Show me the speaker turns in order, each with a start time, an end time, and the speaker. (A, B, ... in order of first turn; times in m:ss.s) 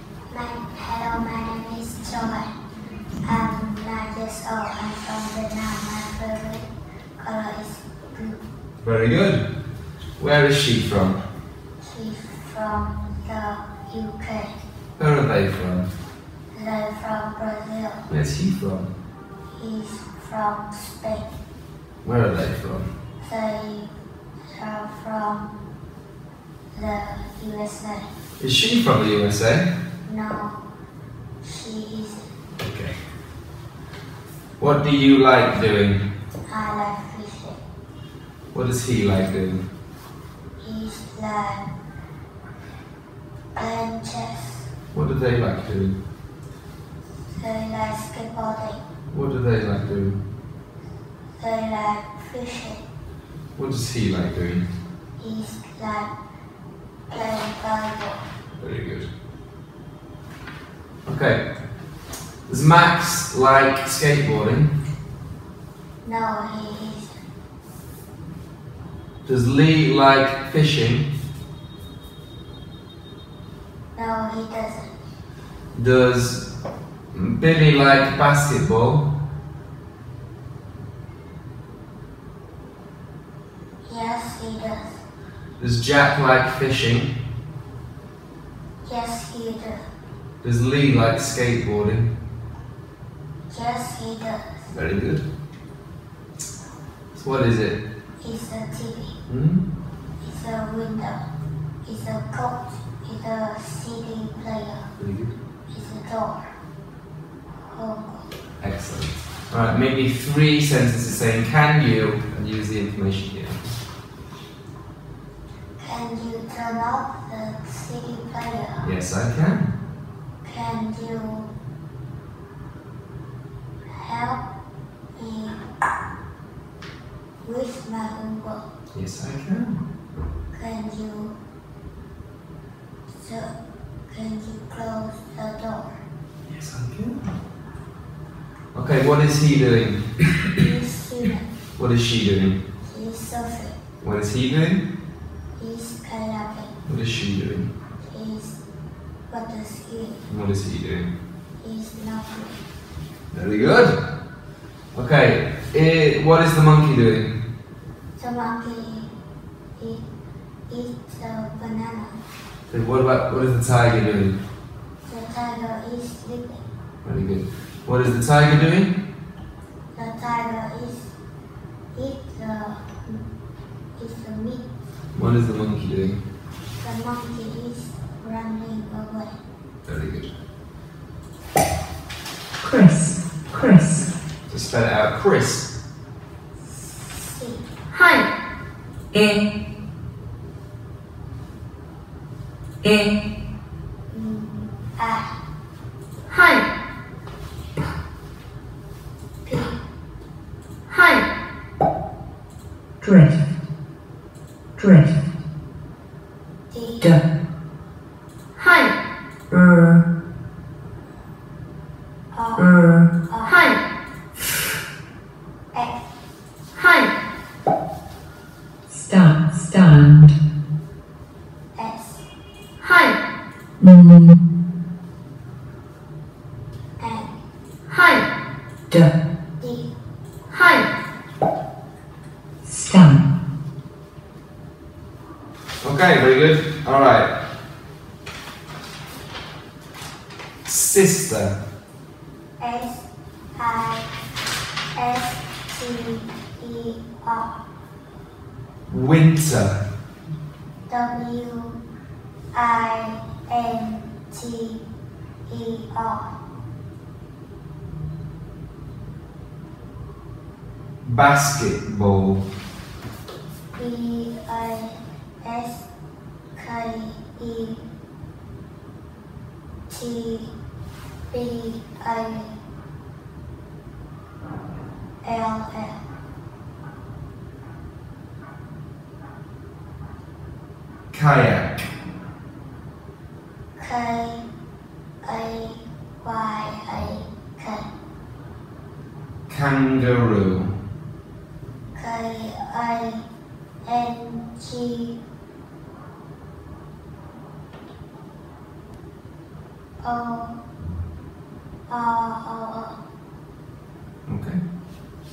0:00.3-0:02.5 A
0:03.2-0:06.7 A
0:07.2-0:08.4 A
0:08.8-0:09.4 B
0:10.2-0:11.2 B
0:11.8-0:14.5 A
0:15.0-0:15.9 B
0:16.5-0:18.0 A
0:18.1-0:18.9 B
0:19.6-0:21.3 A
0:22.0-0:22.9 B
0:23.2-0:23.9 A
0:24.4-0:25.5 A
0:26.7-0:28.1 A
0:28.4-0:29.7 B
0:30.0-0:30.6 A
0:31.4-0:32.3 A
0:32.6-0:33.0 B
0:34.6-0:36.0 B
0:36.5-0:37.6 A
0:38.5-0:39.6 B
0:40.6-0:41.7 A
0:43.6-0:44.7 A
0:44.9-0:46.0 B
0:47.3-0:48.8 A
0:49.1-0:50.2 B
0:51.4-0:52.8 A
0:53.6-0:54.7 B
0:55.2-0:56.1 A
0:57.1-0:58.2 A
0:58.6-0:59.1 B
1:01.0-1:01.4 B
1:02.5-1:04.7 B
1:06.0-1:07.1 A
1:09.2-1:11.1 B
1:13.9-1:14.9 A
1:15.7-1:16.4 B
1:17.1-1:19.1 B
1:23.8-1:25.0 A
1:25.6-1:27.1 B
1:28.8-1:29.8 A
1:30.4-1:32.1 B
1:33.5-1:34.7 A
1:34.7-1:35.2 B
1:37.1-1:37.8 B
1:38.2-1:39.1 A
1:39.3-1:39.6 B
1:40.2-1:41.2 A
1:41.8-1:44.9 A
1:45.0-1:45.3 B
1:45.7-1:46.5 A
1:47.7-1:48.3 A
1:48.6-1:53.6 B
1:55.8-1:58.8 A
1:58.8-1:59.7 B
2:00.4-2:01.5 A
2:04.0-2:04.4 A
2:05.2-2:05.6 A
2:07.4-2:08.6 A
2:08.9-2:09.8 B
2:10.5-2:11.3 A
2:13.1-2:13.5 A
2:14.1-2:16.0 A
2:16.5-2:17.3 B
2:18.7-2:20.1 B
2:20.6-2:21.4 A
2:21.8-2:22.6 B
2:22.8-2:23.8 A
2:24.0-2:24.8 B
2:25.6-2:26.7 A
2:26.8-2:27.7 B
2:28.1-2:28.6 A
2:29.3-2:30.2 A
2:30.3-2:31.1 B
2:31.6-2:32.6 A
2:33.3-2:33.9 B
2:34.9-2:37.3 B
2:38.2-2:39.1 A
2:39.8-2:40.0 A
2:40.7-2:42.1 A
2:42.7-2:44.4 B
2:45.1-2:46.6 A
2:47.0-2:48.9 B
2:49.9-2:51.1 A
2:51.9-2:53.2 A
2:54.0-2:54.7 A
2:55.1-2:56.2 B
2:56.8-2:59.3 A
2:59.8-3:00.3 B
3:02.6-3:04.1 C
3:04.5-3:05.7 B
3:06.6-3:07.7 A
3:09.1-3:09.4 C
3:12.8-3:13.1 C
3:14.1-3:15.3 A
3:19.4-3:19.8 A
3:23.0-3:23.4 C
3:24.8-3:25.2 C
3:26.7-3:27.1 A
3:29.5-3:30.0 C
3:32.3-3:33.8 A
3:32.6-3:33.1 C
3:35.7-3:36.0 A
3:38.9-3:40.3 C
3:41.8-3:42.2 A
3:43.8-3:44.4 C
3:47.0-3:47.3 A
3:49.6-3:49.9 A
3:52.6-3:53.2 C
3:55.8-3:57.3 B
4:00.7-4:01.6 B
4:02.6-4:03.0 A
4:03.6-4:04.1 A
4:04.9-4:07.6 A
4:08.9-4:09.8 B
4:10.9-4:11.8 A
4:12.5-4:14.8 A
4:15.5-4:16.3 A
4:21.0-4:22.4 B
4:23.8-4:25.8 A
4:26.6-4:27.8 A
4:29.9-4:30.5 A
4:31.3-4:32.5 A
4:35.2-4:36.0 A
4:41.1-4:41.9 B
4:43.8-4:44.4 A
4:45.2-4:47.9 A
4:49.5-4:50.7 B
4:51.9-4:53.2 A
4:53.9-4:55.2 A
5:00.0-5:00.5 A
5:01.9-5:02.9 A
5:04.3-5:04.6 B